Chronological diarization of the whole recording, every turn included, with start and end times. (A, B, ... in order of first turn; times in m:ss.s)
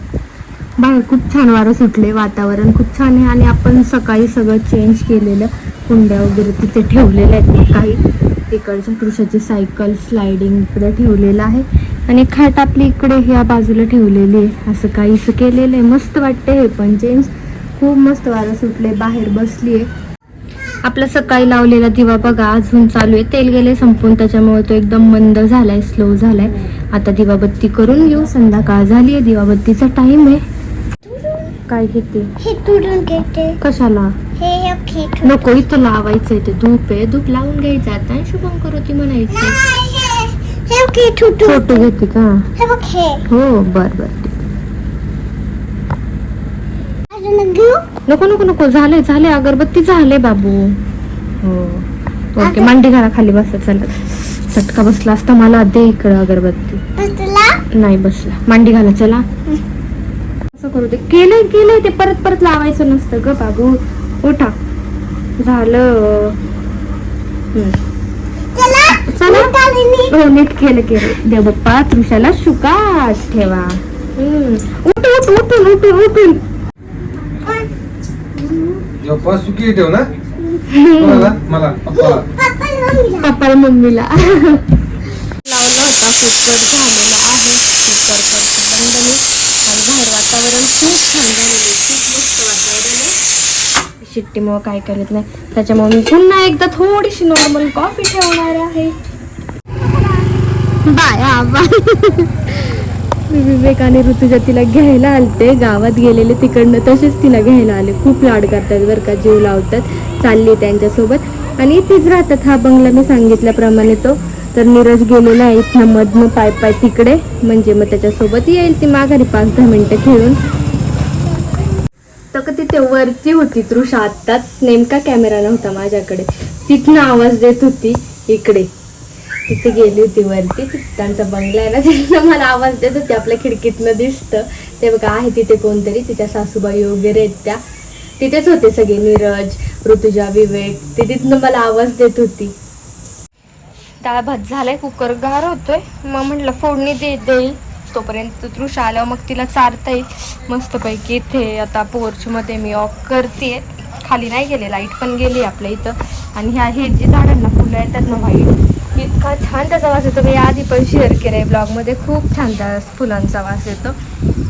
0:00.8-0:19.9 A
0:20.8-0:30.4 A
0:31.1-0:31.5 B
0:31.7-0:32.3 A
0:32.4-0:33.6 B
0:33.6-0:34.2 A
0:34.4-0:35.4 B
0:35.2-0:39.6 A
0:39.4-0:41.9 B
0:41.4-0:42.5 A
0:42.6-0:43.3 B
0:43.3-0:44.4 A
0:47.1-0:47.9 B
0:48.1-0:50.8 A
0:51.4-0:56.8 A
0:52.4-0:52.7 B
0:57.0-0:57.6 B
0:57.7-0:59.2 A
1:00.5-1:04.5 A
1:05.4-1:06.4 A
1:08.5-1:10.1 B
1:09.0-1:09.6 A
1:10.1-1:16.4 A
1:17.4-1:17.7 B
1:18.4-1:18.8 B
1:19.0-1:20.1 C
1:20.7-1:21.4 A
1:21.0-1:22.3 C
1:21.9-1:23.3 B
1:23.1-1:24.7 A
1:25.4-1:33.1 A
1:34.0-1:38.9 A
1:40.9-1:42.8 A
1:43.3-2:00.4 A
2:02.3-2:08.7 A
2:09.5-2:17.6 A
2:18.2-2:22.6 A
2:24.0-2:44.0 A